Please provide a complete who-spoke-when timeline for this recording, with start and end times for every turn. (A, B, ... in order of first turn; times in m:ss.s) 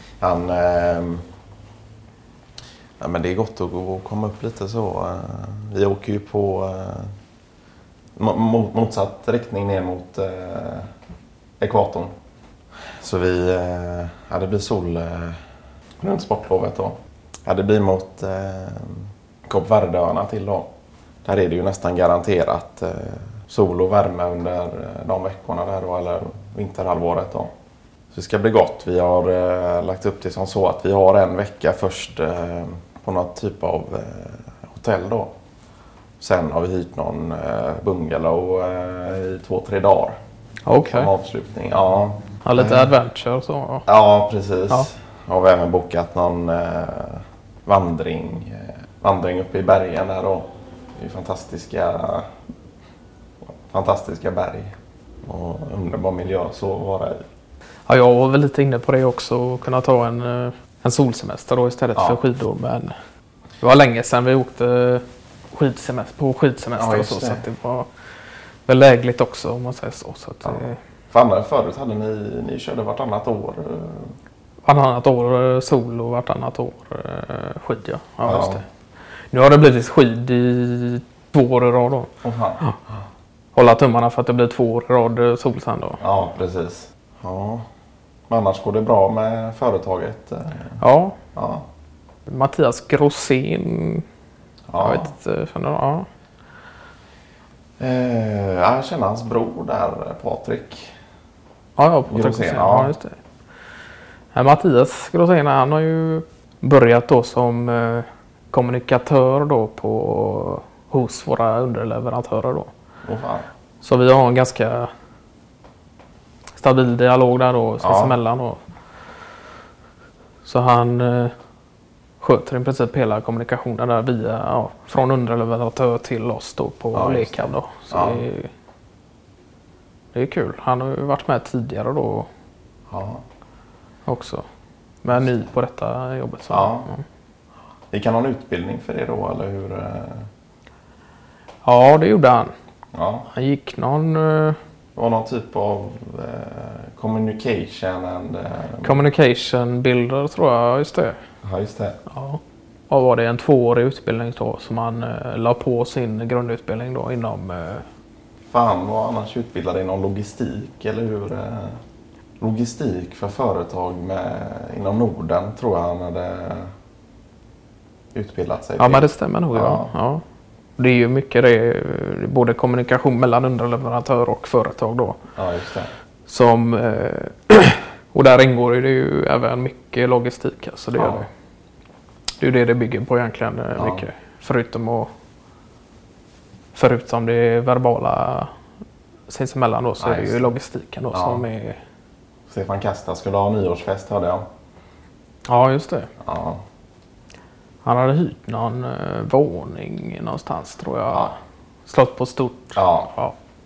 0:00.2-0:01.2 A
0:03.0-0:07.1 A
0:08.2-0:10.9 A
0:11.6-0:12.1 A
0:13.0-0:15.4 A
0:16.0-0:20.7 A
0:21.2-0:27.5 A
0:28.1-0:35.3 A
0:36.2-0:40.2 A
0:40.7-0:41.1 B
0:40.8-0:42.9 A
0:42.4-0:43.9 B
0:43.9-0:52.3 A
0:53.4-0:54.7 A
0:55.2-0:57.2 A
0:57.9-1:02.9 B
1:03.6-1:07.9 B
1:06.8-1:07.4 A
1:08.7-1:10.8 B
1:10.4-1:14.1 A
1:14.6-1:18.6 B
1:18.2-1:18.6 A
1:19.3-1:22.8 B
1:22.2-1:22.6 A
1:23.5-1:26.0 B
1:26.0-1:27.6 A
1:28.3-1:30.8 A
1:30.8-1:31.2 B
1:31.4-1:31.7 A
1:32.2-1:34.0 B
1:34.7-1:35.1 A
1:34.8-1:36.1 B
1:37.8-1:40.9 A
1:41.8-1:43.2 B
1:42.1-1:42.9 A
1:44.3-1:52.7 B
1:53.0-1:53.5 A
1:53.8-1:54.9 B
1:56.6-1:58.6 B
1:57.8-1:58.2 A
2:00.4-2:01.3 B
2:02.2-2:08.5 B
2:06.9-2:08.2 A
2:10.1-2:12.3 B
2:12.9-2:13.2 A
2:14.1-2:14.4 B
2:15.0-2:17.0 B
2:16.5-2:16.9 A
2:17.9-2:20.3 A
2:21.6-2:22.5 B
2:22.9-2:23.3 A
2:23.3-2:24.6 B
2:25.0-2:29.0 A
2:28.8-2:31.2 B
2:31.4-2:32.0 A
2:32.1-2:37.8 B
2:38.5-2:41.8 A
2:42.4-2:46.7 A
2:48.1-2:49.9 A
2:48.8-2:50.2 B
2:50.8-2:55.2 B
2:55.4-2:55.9 A
2:56.3-3:01.3 B
3:01.0-3:01.3 A
3:02.4-3:05.1 B
3:03.8-3:04.0 A
3:06.7-3:08.5 B
3:09.3-3:11.8 B
3:10.0-3:10.5 A
3:11.1-3:11.4 A
3:12.5-3:14.4 A
3:15.4-3:16.1 B
3:16.2-3:16.6 A
3:17.8-3:23.3 B
3:21.1-3:21.4 A
3:22.8-3:23.1 A